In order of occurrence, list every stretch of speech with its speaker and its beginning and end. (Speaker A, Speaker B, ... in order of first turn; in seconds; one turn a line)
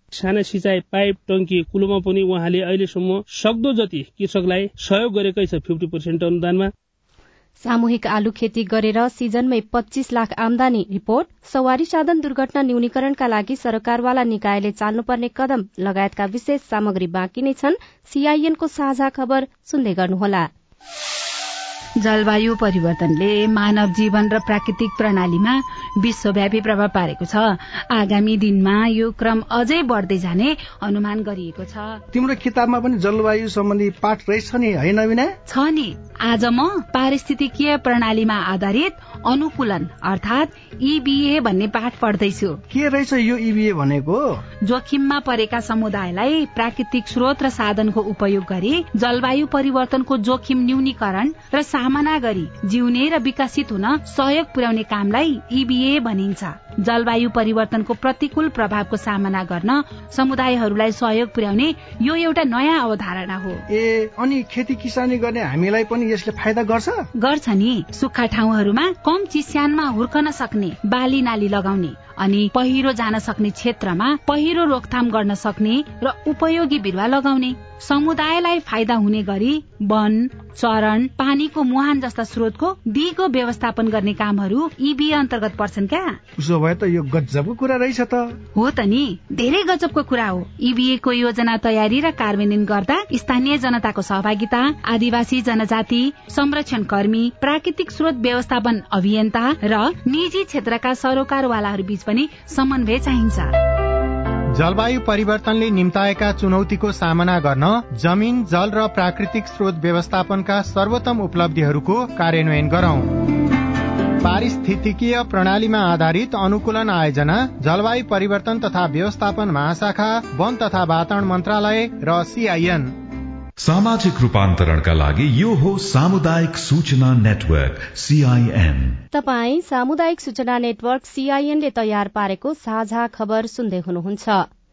Speaker A: 0.1-6.7
Speaker B: 7.6-20.5
Speaker C: 22.0-32.0
Speaker D: 32.1-35.4
Speaker C: 35.5-42.6
Speaker D: 42.7-44.4
Speaker C: 44.6-63.6
Speaker D: 63.7-67.0
Speaker C: 67.2-86.2
Speaker D: 86.4-88.4
Speaker C: 88.5-103.6
Speaker E: 104.5-113.2
Speaker E: 114.2-122.9
Speaker F: 123.6-129.0
Speaker B: 129.1-134.5